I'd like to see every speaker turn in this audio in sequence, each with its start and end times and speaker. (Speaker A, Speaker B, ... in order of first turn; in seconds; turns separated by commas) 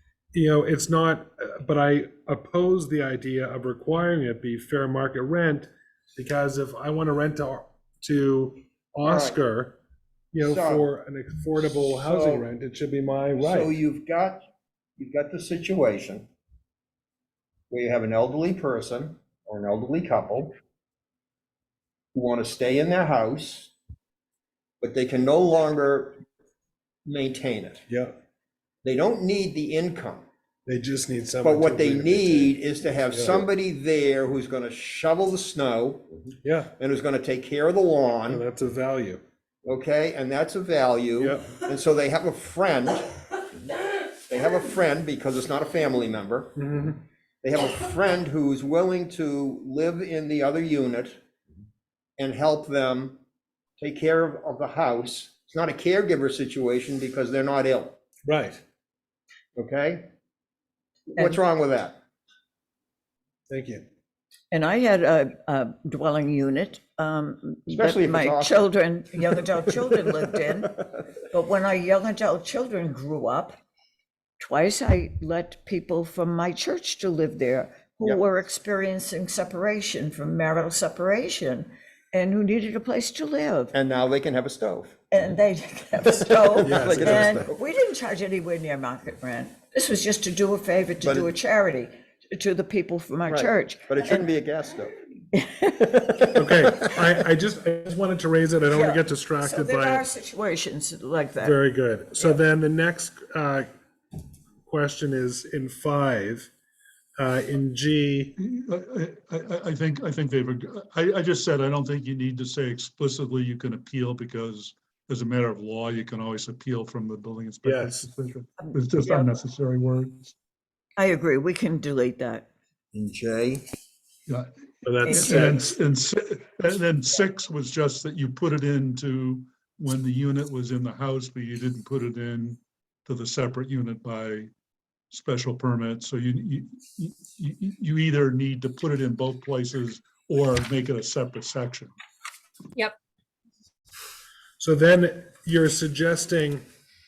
Speaker A: 0.3-9.8, Speaker B: 9.1-9.4, Speaker A: 10.3-13.8, Speaker B: 10.4-10.9, Speaker B: 12.0-12.5, Speaker B: 13.4-14.4, Speaker B: 15.0-16.3, Speaker B: 17.7-20.6, Speaker B: 22.1-23.7, Speaker B: 24.8-26.2, Speaker B: 27.1-27.8, Speaker A: 27.9-28.2, Speaker B: 28.8-30.3, Speaker A: 30.7-32.5, Speaker B: 31.4-38.4, Speaker A: 33.1-33.5, Speaker A: 36.4-36.7, Speaker A: 38.3-39.2, Speaker B: 39.6-43.1, Speaker A: 41.2-41.6, Speaker B: 44.3-46.5, Speaker A: 46.6-47.0, Speaker B: 47.4-51.2, Speaker B: 52.2-53.2, Speaker B: 53.8-58.0, Speaker A: 58.3-58.6, Speaker B: 59.6-60.1, Speaker B: 61.1-62.0, Speaker A: 63.5-63.9, Speaker C: 64.5-73.6, Speaker B: 67.7-68.7, Speaker C: 74.4-83.7, Speaker B: 83.7-85.1, Speaker C: 85.1-94.3, Speaker B: 86.4-87.6, Speaker A: 86.6-87.5, Speaker B: 91.0-91.3, Speaker B: 93.2-95.0, Speaker C: 95.3-96.3, Speaker A: 96.3-100.1, Speaker C: 98.7-101.6, Speaker A: 101.4-103.7, Speaker A: 104.6-106.5, Speaker A: 107.2-108.3, Speaker D: 108.4-120.3, Speaker A: 117.6-118.1, Speaker C: 118.6-119.3, Speaker C: 121.0-122.5, Speaker B: 122.9-123.7, Speaker A: 124.8-125.7, Speaker D: 125.0-134.5, Speaker C: 125.1-125.5, Speaker D: 135.1-141.9, Speaker A: 144.6-146.6